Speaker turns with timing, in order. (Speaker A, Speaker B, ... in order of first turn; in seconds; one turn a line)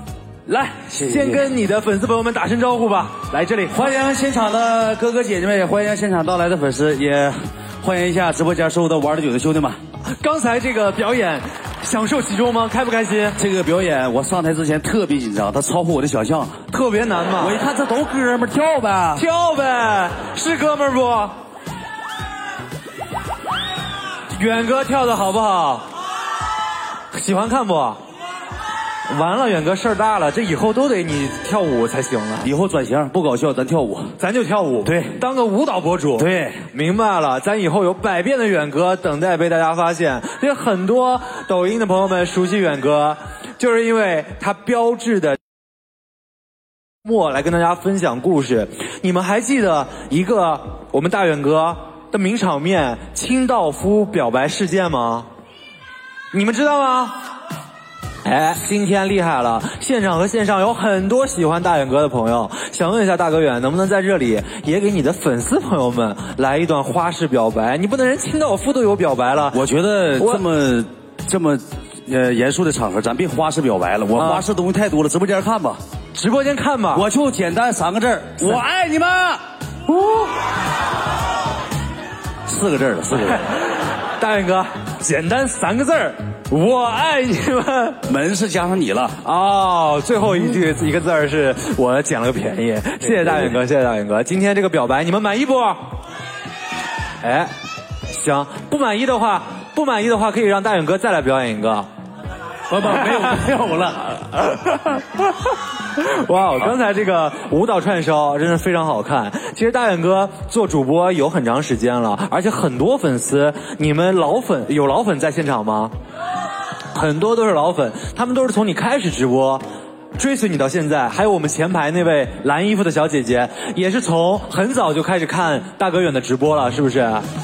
Speaker A: 0.5-1.4
Speaker B: 1.0-3.8
Speaker A: 3.7-9.8
Speaker B: 10.2-13.4
Speaker A: 13.3-16.6
Speaker B: 16.7-17.6
Speaker A: 17.4-19.2
Speaker B: 19.1-21.3
Speaker B: 24.3-25.9
Speaker B: 27.1-28.0
Speaker B: 29.1-32.5
Speaker A: 32.4-34.1
Speaker B: 34.2-45.4
Speaker A: 34.8-35.2
Speaker A: 36.2-36.6
Speaker B: 47.0-55.3
Speaker B: 56.3-57.2
Speaker B: 58.2-69.6
Speaker A: 69.5-75.8
Speaker B: 70.2-70.4
Speaker B: 74.1-74.4
Speaker B: 76.1-77.0
Speaker A: 76.9-79.4
Speaker B: 79.9-80.3
Speaker A: 82.5-83.5
Speaker B: 84.2-88.0
Speaker A: 88.0-89.2
Speaker B: 89.2-95.9
Speaker A: 93.0-93.5
Speaker B: 97.2-97.5
Speaker B: 98.1-101.9
Speaker A: 102.7-104.4
Speaker B: 102.8-103.4
Speaker B: 105.9-115.9
Speaker B: 116.9-119.6
Speaker B: 120.2-127.2